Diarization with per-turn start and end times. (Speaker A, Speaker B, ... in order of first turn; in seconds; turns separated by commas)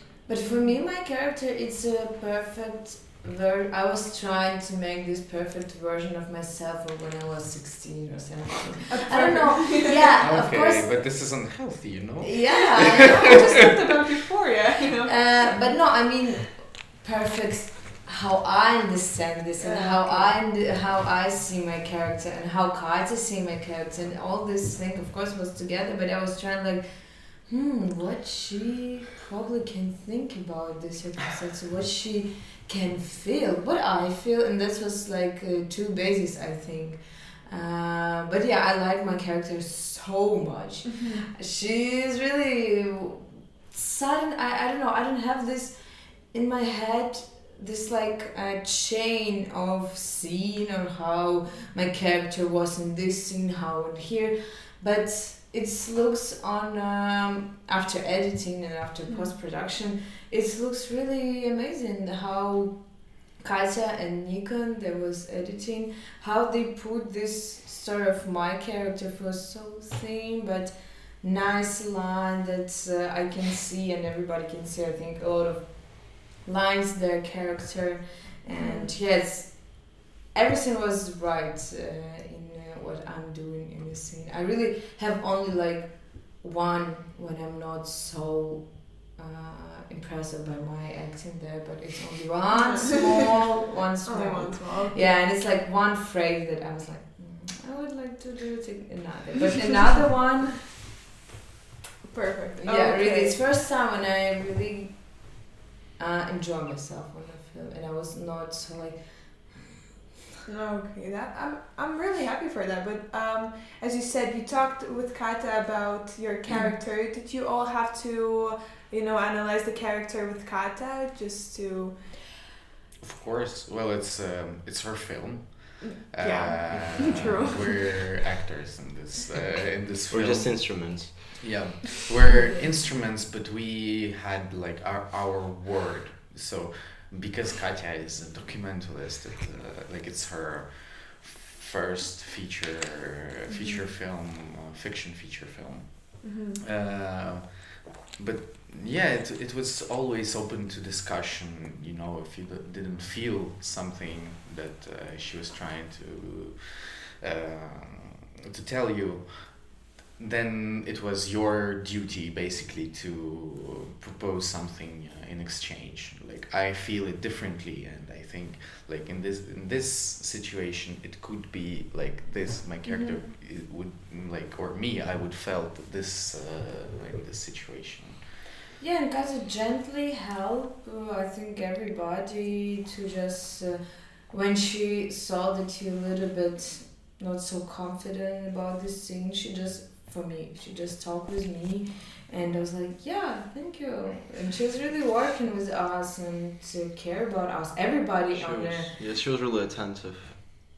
Speaker A: 0.3-11.0, Speaker B: 0.5-0.8, Speaker B: 8.9-10.0, Speaker C: 10.2-12.9, Speaker A: 12.2-13.6, Speaker B: 12.8-15.8, Speaker A: 15.1-100.7, Speaker B: 19.6-20.3, Speaker B: 40.8-41.3, Speaker B: 59.1-59.3, Speaker B: 78.5-78.9, Speaker B: 92.5-92.9, Speaker B: 94.0-95.1, Speaker B: 102.0-103.4, Speaker A: 102.6-105.4, Speaker A: 106.0-109.7, Speaker B: 110.5-122.1, Speaker A: 116.5-116.7, Speaker C: 123.0-178.3, Speaker B: 125.8-127.9, Speaker D: 130.1-131.5, Speaker B: 143.5-143.8, Speaker B: 146.2-146.6, Speaker B: 172.8-173.3, Speaker A: 178.8-199.0, Speaker D: 198.3-200.4